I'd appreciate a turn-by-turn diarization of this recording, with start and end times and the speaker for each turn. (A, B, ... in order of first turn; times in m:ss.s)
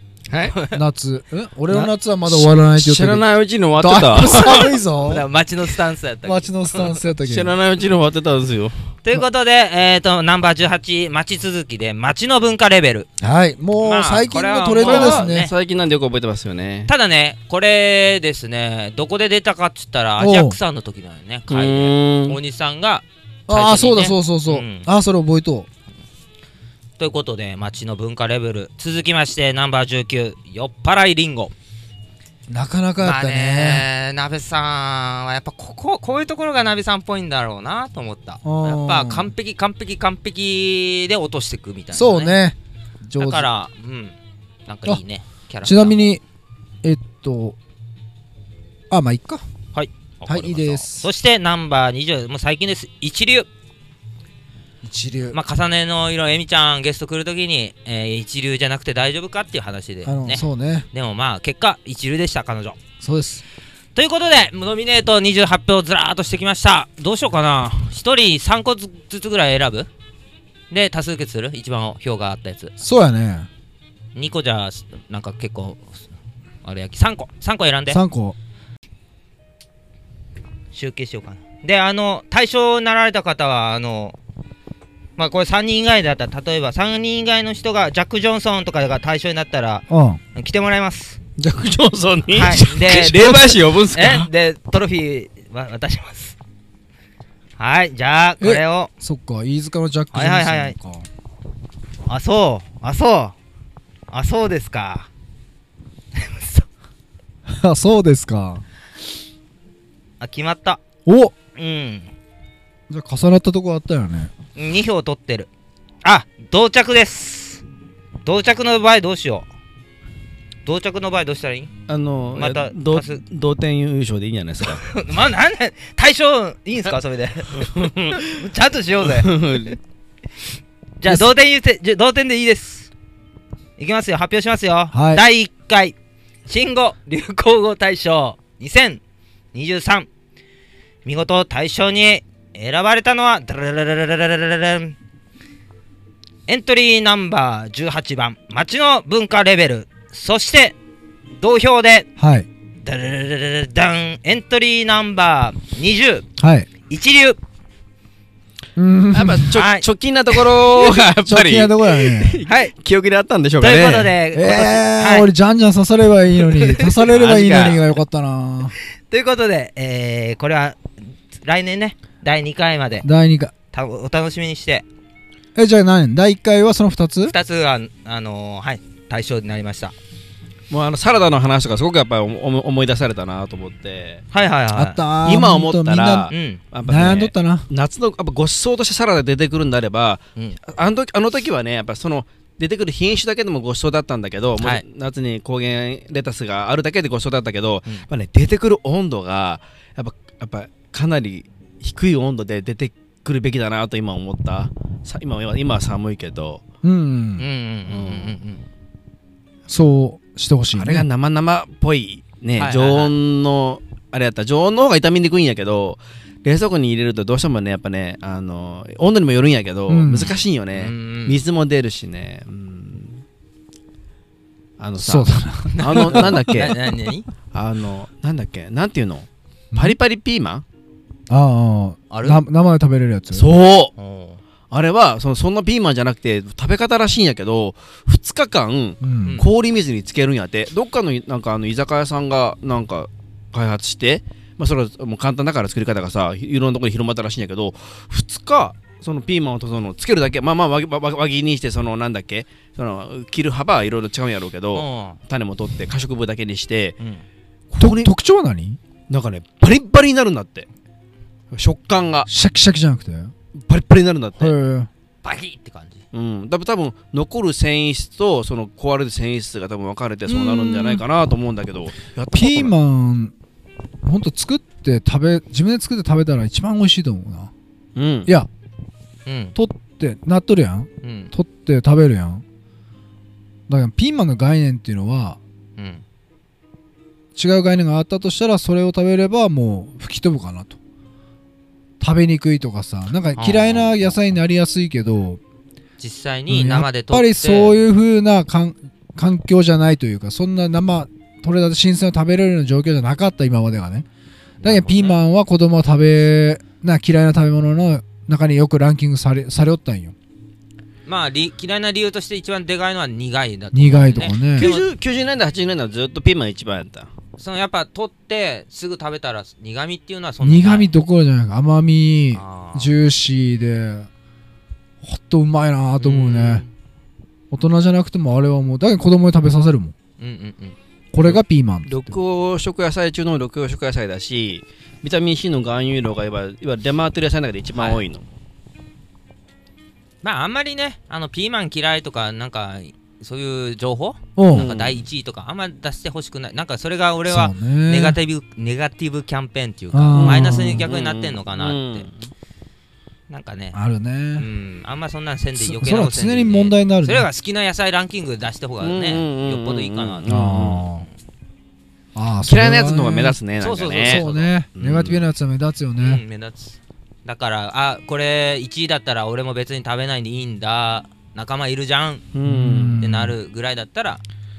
0:00.3-0:00.6 A
0:00.7-0:03.3 B
0:02.3-0:04.7 A
0:03.8-0:05.3 B
0:05.0-0:07.0 C
0:06.2-0:07.5 B
0:07.2-0:08.8 A
0:09.0-0:13.1 C
0:13.2-0:15.5 B
0:13.8-0:15.5 C
0:14.8-0:16.9 A
0:16.9-0:24.9 C
0:20.2-0:20.6 B
0:21.5-0:22.4 A
0:23.5-0:25.7 B
0:27.0-0:31.5 C
0:32.5-0:33.8 B
0:33.0-0:42.4 C
0:38.4-0:39.3 B
0:41.9-0:43.5 B
0:43.2-0:44.2 C
0:44.7-0:46.1 C
0:45.6-0:46.2 B
0:46.8-0:47.6 B
0:48.9-0:49.4 B
0:49.7-0:53.5 C
0:50.3-0:51.1 B
0:54.8-0:55.4 B
0:55.3-1:02.8 C
1:00.0-1:00.9 B
1:03.0-1:03.4 B
1:04.0-1:09.9 C
1:10.7-1:12.7 C
1:12.8-1:13.5 B
1:14.2-1:16.0 C
1:16.6-1:18.0 C
1:17.9-1:18.4 B
1:20.7-1:24.2 C
1:25.2-1:31.2 C
1:29.9-1:30.2 B
1:31.4-1:34.3 A
1:32.3-1:36.4 C
1:37.6-1:38.9 C
1:38.4-1:41.1 B
1:40.1-1:40.8 C
1:42.1-1:43.3 C
1:44.1-1:45.1 C
1:46.2-1:46.7 C
1:47.5-1:48.6 B
1:50.2-1:50.8 C
1:51.1-1:51.3 B
1:51.6-1:52.1 C
1:52.9-1:54.3 B
1:54.6-1:55.5 C
1:56.0-1:57.6 C
1:58.2-1:59.5 C
2:00.6-2:01.7 C
2:01.9-2:04.8 A
2:02.4-2:03.2 C
2:04.7-2:09.6 C
2:07.5-2:08.4 A
2:09.0-2:09.8 A
2:11.0-2:12.9 C
2:13.8-2:16.0 C
2:14.9-2:15.2 B
2:16.5-2:19.0 C
2:19.5-2:20.1 C
2:21.0-2:25.0 C
2:26.5-2:30.8 C
2:31.4-2:32.1 C
2:32.2-2:32.5 B
2:32.8-2:36.3 C
2:36.4-2:36.7 B
2:36.9-2:37.4 C
2:38.8-2:39.6 B
2:39.1-2:44.1 A
2:39.6-2:39.9 C
2:41.2-2:42.4 B
2:42.5-2:42.7 C
2:43.6-2:45.3 C
2:44.3-2:48.8 B
2:46.4-2:47.8 C
2:47.1-2:47.8 A
2:49.1-2:50.8 C
2:51.4-2:53.1 C
2:53.0-2:53.5 B
2:53.7-2:54.8 C
2:55.6-2:57.3 B
2:57.3-2:59.9 C
3:00.7-3:04.2 A
3:04.3-3:05.0 C
3:04.7-3:06.3 B
3:05.2-3:26.6 A
3:06.3-3:06.6 C
3:06.9-3:07.7 B
3:26.8-3:27.5 B
3:27.4-3:28.6 C
3:27.9-3:28.4 A
3:29.7-3:31.1 B
3:30.7-3:43.2 A
3:32.6-3:33.1 C
3:39.9-3:40.4 B
3:40.7-3:41.4 C
3:44.8-3:46.8 A
3:45.0-3:46.8 B
3:45.7-3:47.3 C
3:47.5-3:50.6 A
3:51.3-3:53.5 B
3:52.1-3:52.4 C
3:53.3-3:53.9 A
3:54.0-3:54.4 C
3:54.7-4:17.0 A
3:59.0-3:59.4 B
4:14.7-4:15.2 C
4:17.7-4:18.1 A
4:17.8-4:18.8 B
4:19.1-4:20.7 A
4:21.5-4:22.3 A
4:22.3-4:23.3 B
4:23.6-4:24.6 A
4:24.4-4:24.9 B
4:25.2-4:26.0 C
4:26.1-4:32.7 A
4:30.3-4:31.0 B
4:32.3-4:33.3 B
4:34.0-4:37.5 B
4:38.0-4:38.3 A
4:39.3-4:39.6 C
4:39.6-4:42.4 B
4:41.0-4:41.3 C
4:43.7-4:45.4 B
4:45.8-4:46.0 C
4:47.4-4:50.8 B
4:52.0-4:55.4 B
4:53.4-4:54.1 C
4:56.0-4:57.8 C
4:56.5-5:04.1 B
5:04.6-5:05.2 C
5:04.6-5:10.2 B
5:11.1-5:14.9 C
5:13.7-5:14.7 B
5:14.5-5:17.1 A
5:17.4-5:20.9 C
5:20.4-5:24.1 B
5:22.3-5:22.9 C
5:25.0-5:26.6 B
5:26.0-5:26.7 C
5:27.5-5:29.9 B
5:30.2-5:30.8 C
5:31.1-5:32.2 B
5:31.3-5:38.2 A
5:37.8-5:38.0 C
5:40.2-5:52.1 C
5:44.4-5:44.7 B
5:44.5-5:45.0 A
5:47.3-5:48.2 B
5:49.9-5:50.9 B
5:50.2-5:52.3 A
5:53.3-5:53.8 C
5:53.7-5:54.5 B
5:54.4-6:01.0 C
5:55.6-5:57.3 B
5:58.8-6:00.8 A
6:00.3-6:01.1 B
6:02.2-6:03.4 B
6:02.4-6:04.2 A
6:03.6-6:04.5 C
6:04.0-6:06.2 B
6:04.8-6:05.2 A
6:06.0-6:12.3 C
6:12.3-6:13.0 A
6:12.5-6:13.4 B
6:13.0-6:14.2 C